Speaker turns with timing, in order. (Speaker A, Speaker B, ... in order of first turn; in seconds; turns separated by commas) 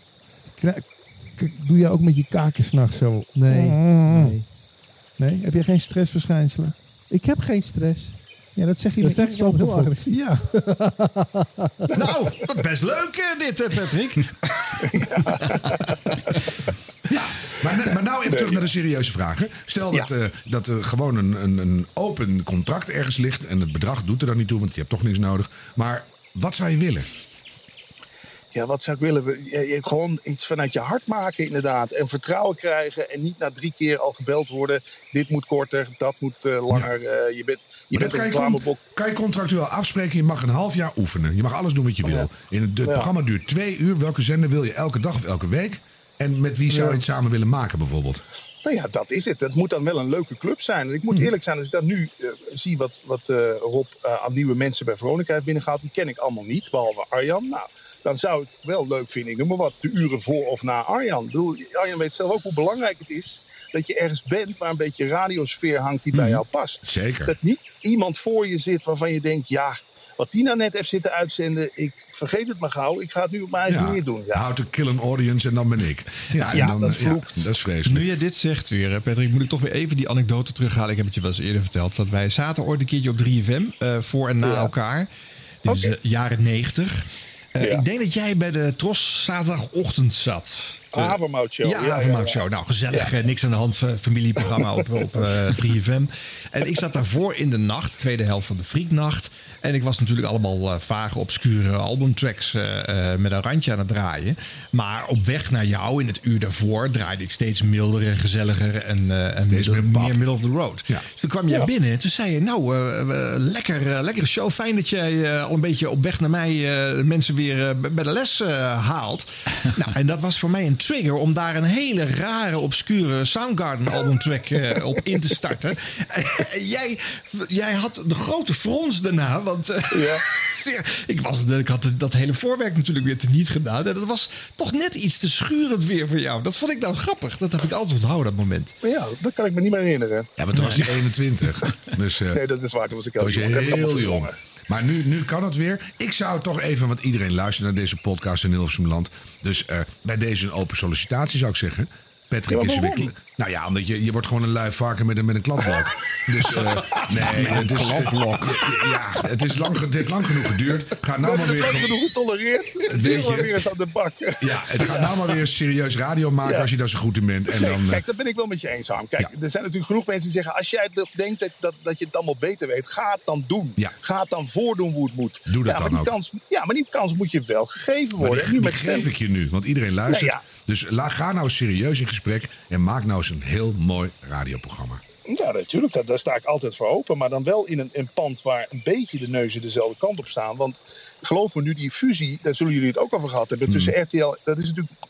Speaker A: 0.5-4.4, Speaker B: 3.3-4.5, Speaker A: 5.2-6.8, Speaker B: 7.1-11.0, Speaker A: 8.5-10.5, Speaker C: 11.9-16.0, Speaker D: 14.8-16.3, Speaker E: 17.1-27.1, Speaker D: 18.3-18.7, Speaker D: 28.5-38.8, Speaker E: 37.9-48.2, Speaker D: 42.8-43.1, Speaker D: 46.7-47.0, Speaker D: 48.6-74.5, Speaker E: 66.8-67.3, Speaker E: 73.7-78.1, Speaker D: 76.5-77.5, Speaker C: 77.9-85.1, Speaker D: 84.4-84.7, Speaker C: 85.7-138.8, Speaker D: 85.7-85.9, Speaker D: 90.9-93.1, Speaker D: 94.4-95.3, Speaker E: 109.5-110.2, Speaker D: 129.9-130.2, Speaker D: 138.8-140.9, Speaker E: 140.4-142.4, Speaker C: 140.6-140.8, Speaker D: 142.3-144.4, Speaker E: 143.2-162.0, Speaker D: 152.5-153.1, Speaker D: 156.6-157.0, Speaker C: 157.2-158.6, Speaker D: 161.2-165.3, Speaker E: 162.8-163.6, Speaker E: 164.4-168.0, Speaker D: 166.4-166.7, Speaker D: 167.5-179.1, Speaker E: 175.5-176.2, Speaker E: 178.2-185.0, Speaker D: 180.1-180.4, Speaker D: 185.3-194.9, Speaker E: 193.7-193.9